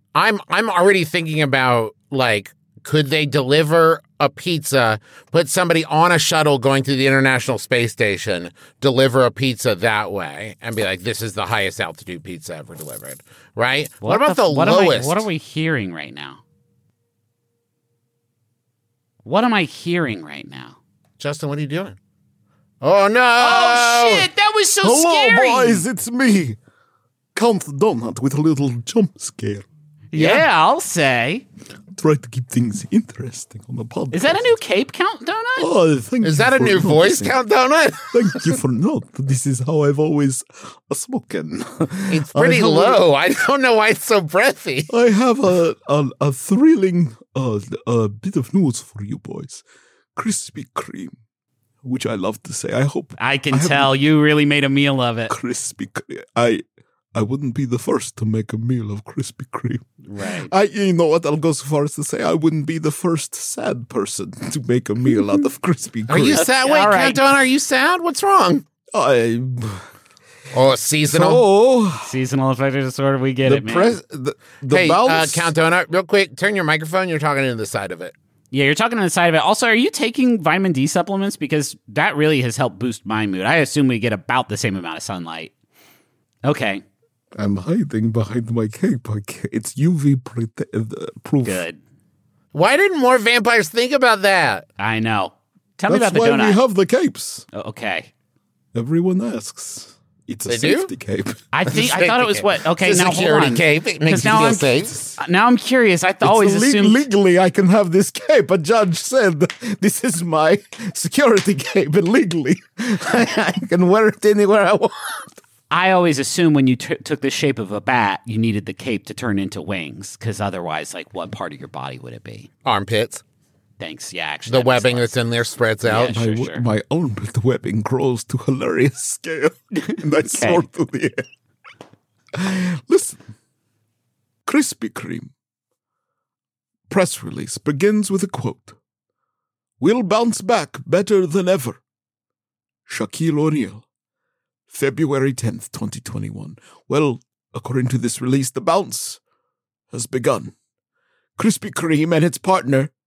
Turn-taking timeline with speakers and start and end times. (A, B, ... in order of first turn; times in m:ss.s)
0:00.1-0:15.3 A
0:14.0-0:16.4 B
0:19.2-0:20.8 B
0:21.2-0:22.0 A
0:22.8-0:24.3 A
0:23.4-0:25.8 B
0:24.8-0:26.6 C
0:27.3-0:29.6 C
0:30.1-0:31.4 B
0:30.1-0:30.4 A
0:32.0-0:34.4 C
0:34.1-0:35.7 B
0:35.6-0:37.3 C
0:36.2-0:38.5 A
0:38.1-0:43.0 C
0:42.1-0:44.9 A
0:44.9-0:49.6 C
0:50.2-0:51.1 C
0:51.8-0:53.9 C
0:53.2-0:55.3 B
0:55.3-0:56.6 C
0:57.1-0:59.8 C
1:00.1-1:00.5 B
1:00.5-1:06.4 C
1:06.1-1:08.6 A
1:06.3-1:07.2 B
1:08.9-1:09.8 C
1:10.5-1:11.4 A
1:11.1-1:12.1 C
1:12.0-1:14.0 B
1:13.4-1:15.5 C
1:14.7-1:18.1 A
1:18.5-1:25.5 B
1:26.4-1:26.8 B
1:27.4-1:31.6 C
1:31.4-1:31.8 B
1:32.5-1:34.7 A
1:34.8-1:36.6 B
1:35.9-1:37.4 C
1:37.5-1:38.1 B
1:38.7-1:41.4 C
1:40.4-1:40.9 A
1:41.5-1:47.0 B
1:41.7-1:45.0 A
1:46.2-1:55.2 C
1:55.7-2:02.5 B
2:02.6-2:03.2 A
2:03.8-2:05.1 B
2:04.5-2:06.2 A
2:05.8-2:06.6 B
2:06.1-2:11.2 C
2:09.7-2:10.6 B
2:12.4-2:13.2 C
2:14.4-2:15.3 C
2:16.9-2:18.7 C
2:19.8-2:21.8 C
2:22.9-2:23.8 C
2:24.7-2:29.2 C
2:29.9-2:30.5 C
2:31.4-2:32.9 C